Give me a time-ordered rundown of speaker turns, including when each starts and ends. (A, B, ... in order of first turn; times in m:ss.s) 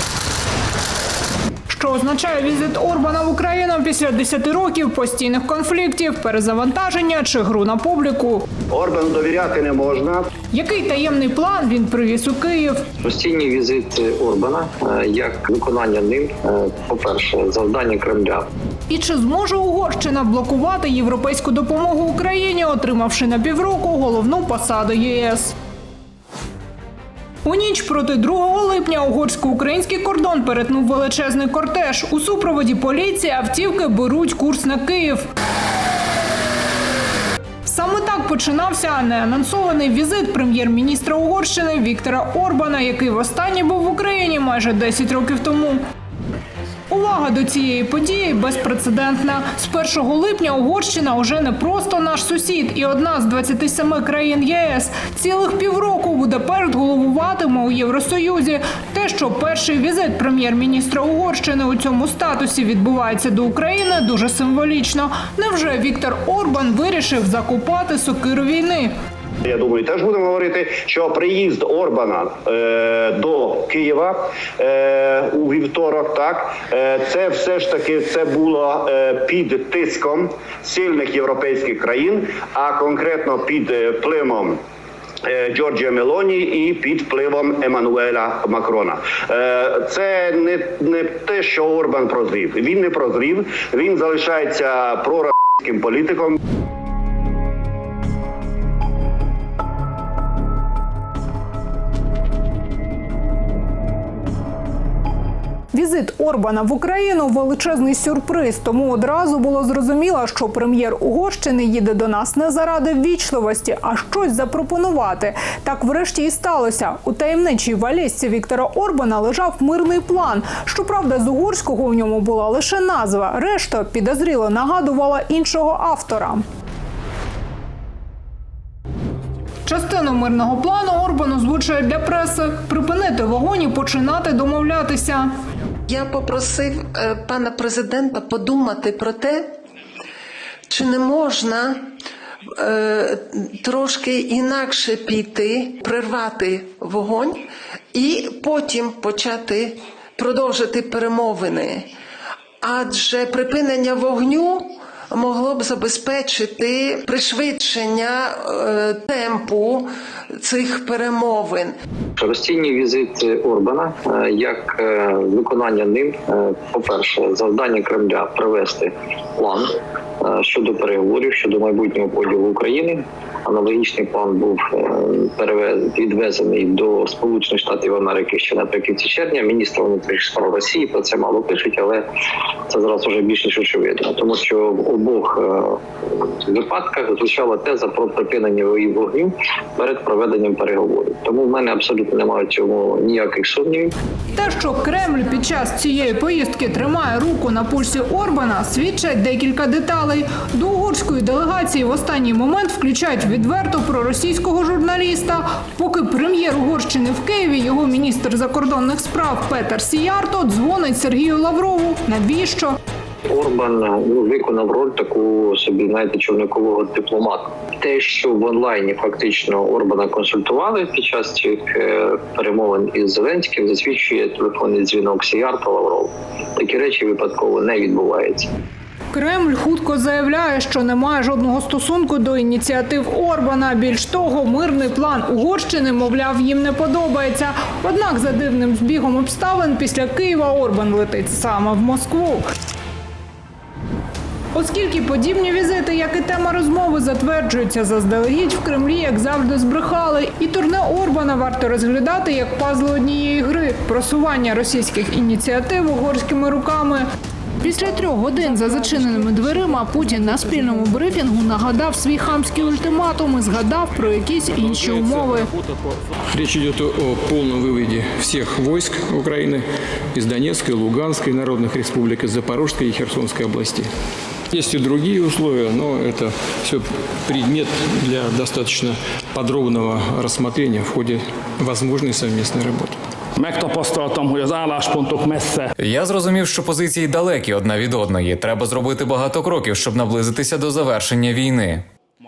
0:01.7-0:08.5 A
0:08.7-0:10.3 B
0:10.5-0:12.8 A
0:13.0-0:18.5 C
0:18.9-0:25.5 A
0:27.4-0:35.2 A
0:37.7-0:45.8 A
0:46.9-1:08.9 A
1:09.4-1:24.6 B
1:25.2-1:36.4 B
1:45.7-2:06.4 A
2:09.7-2:15.3 A
2:15.9-2:19.5 D
2:20.7-2:21.8 D
2:22.6-2:31.9 D
2:32.6-2:41.8 D
2:42.2-2:49.7 C
2:50.2-3:02.0 C
3:02.7-3:05.8 C
3:06.4-3:13.9 C
3:14.3-3:32.8 A
3:33.3-3:48.5 C
3:49.1-4:02.4 A
4:04.6-4:17.1 A
4:17.6-4:25.5 A
4:24.7-4:25.6 E
4:26.3-4:33.9 E
4:34.5-4:43.0 E
4:43.4-4:45.8 F
4:45.8-4:51.8 G